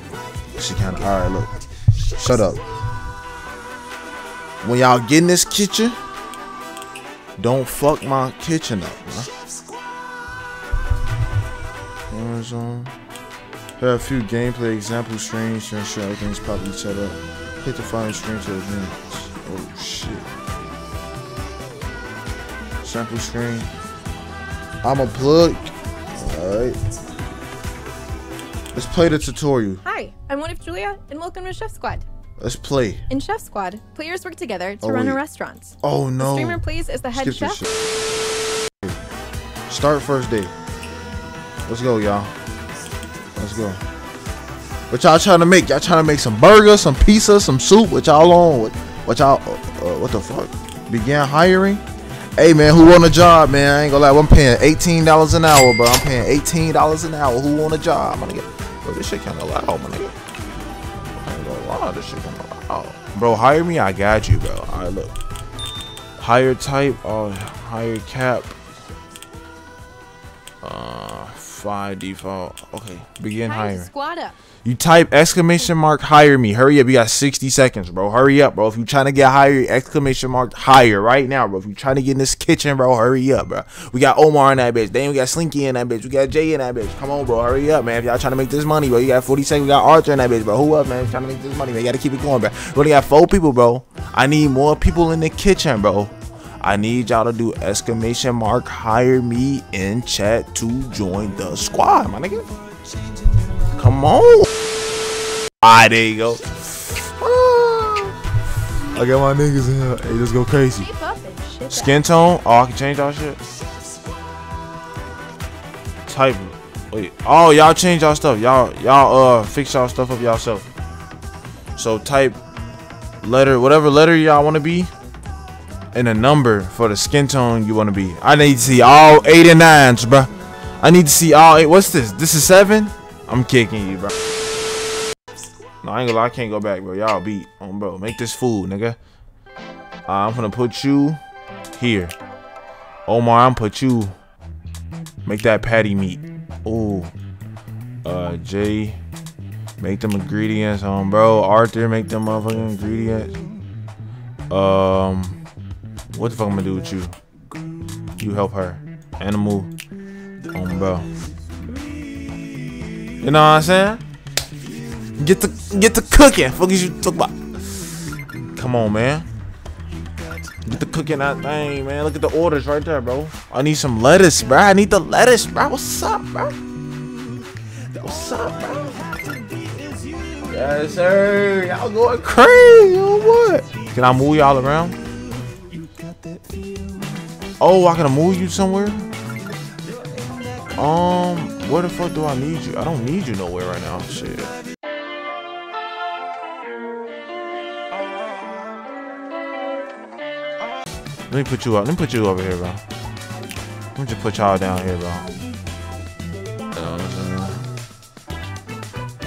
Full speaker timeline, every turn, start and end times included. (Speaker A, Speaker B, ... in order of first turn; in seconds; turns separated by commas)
Speaker A: 0.6-1.5, Speaker A: 2.1-2.6, Speaker A: 4.6-6.0, Speaker A: 7.4-9.3, Speaker A: 12.1-12.9, Speaker A: 13.8-20.3, Speaker A: 22.8-23.7, Speaker A: 24.8-26.8, Speaker A: 28.7-29.8, Speaker B: 29.8-32.0, Speaker A: 32.4-33.0, Speaker B: 33.1-37.7, Speaker A: 34.8-35.2, Speaker A: 35.8-36.6, Speaker A: 37.1-37.7, Speaker A: 39.7-40.5, Speaker A: 41.7-42.3, Speaker A: 43.4-43.8, Speaker A: 44.9-51.8, Speaker A: 52.4-60.1, Speaker A: 61.1-65.2, Speaker A: 66.2-68.5, Speaker A: 70.6-73.9, Speaker B: 73.4-74.4, Speaker A: 74.6-102.5, Speaker A: 103.7-104.5, Speaker A: 105.6-108.2, Speaker A: 108.9-110.9, Speaker B: 110.8-112.0, Speaker A: 111.7-113.4, Speaker A: 116.1-120.7, Speaker A: 121.8-122.4, Speaker A: 123.2-124.9, Speaker A: 125.9-134.1, Speaker A: 135.8-139.0, Speaker A: 140.1-141.2, Speaker A: 141.7-142.1, Speaker A: 143.1-144.1, Speaker A: 145.2-147.1, Speaker A: 148.1-149.0, Speaker A: 149.8-153.4, Speaker A: 154.5-155.4, Speaker A: 156.1-157.2, Speaker A: 158.1-159.7, Speaker A: 160.5-161.1, Speaker A: 163.2-164.0, Speaker A: 165.2-167.8, Speaker A: 168.6-169.3, Speaker A: 170.7-176.6, Speaker A: 177.9-179.2, Speaker A: 180.4-185.0, Speaker A: 187.6-189.1, Speaker A: 190.8-194.5, Speaker A: 201.3-202.8, Speaker A: 204.0-205.3, Speaker A: 206.7-207.6